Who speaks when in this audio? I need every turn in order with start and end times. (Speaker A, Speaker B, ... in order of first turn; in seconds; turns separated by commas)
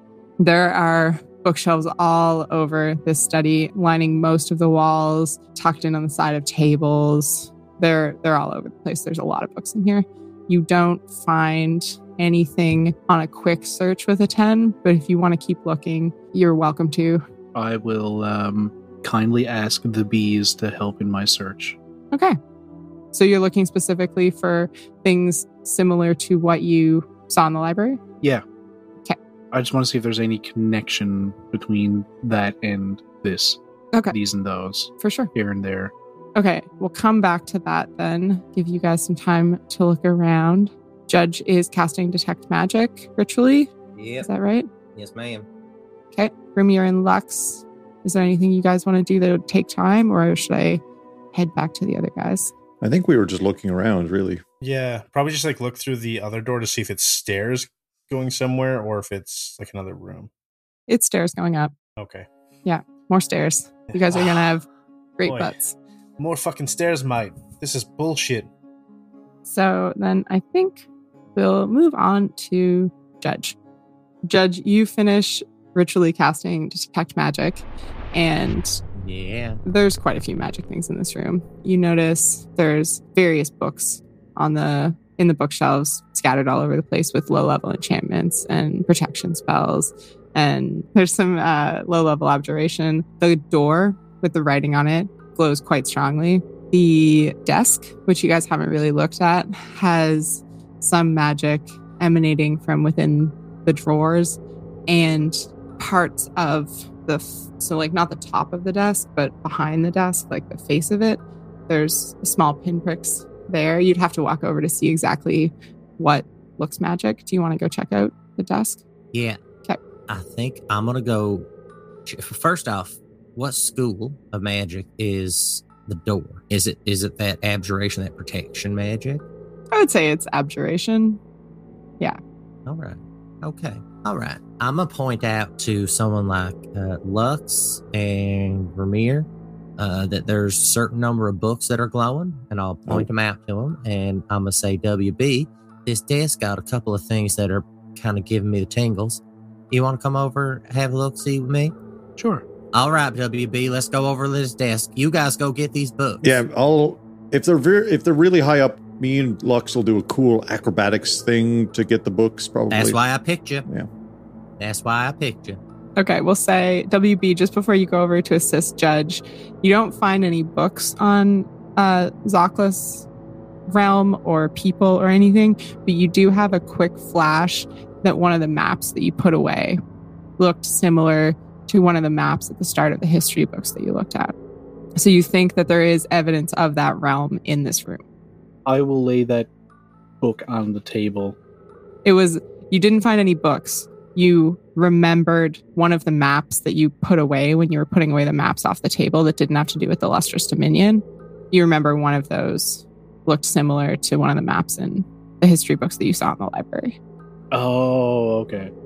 Speaker A: 0.4-17.2, Speaker B: 17.5-21.8, Speaker A: 22.1-22.4, Speaker A: 23.1-28.0, Speaker B: 29.5-33.6, Speaker B: 34.1-35.9, Speaker A: 35.0-35.3, Speaker A: 36.4-44.7, Speaker C: 44.0-44.3, Speaker C: 45.0-45.5, Speaker A: 46.1-52.5, Speaker D: 52.8-54.4, Speaker E: 54.6-60.3, Speaker A: 60.9-61.7, Speaker E: 62.0-62.3, Speaker A: 62.6-64.7, Speaker E: 63.9-64.4, Speaker A: 65.2-65.8, Speaker E: 65.3-65.5, Speaker E: 66.2-68.5, Speaker A: 69.5-73.6, Speaker A: 74.2-78.8, Speaker C: 79.0-79.6, Speaker A: 79.7-118.8, Speaker C: 119.1-119.4, Speaker C: 120.1-121.5, Speaker C: 122.1-129.2, Speaker A: 129.7-131.2, Speaker C: 132.7-151.7, Speaker B: 152.2-152.4, Speaker C: 152.7-156.3, Speaker D: 156.2-163.0, Speaker C: 162.7-163.7, Speaker C: 164.6-165.6, Speaker A: 166.0-173.1, Speaker A: 173.7-179.8, Speaker A: 180.4-184.3, Speaker A: 185.0-188.0, Speaker B: 188.7-189.5, Speaker B: 190.2-191.4, Speaker A: 192.1-207.0, Speaker B: 207.5-208.7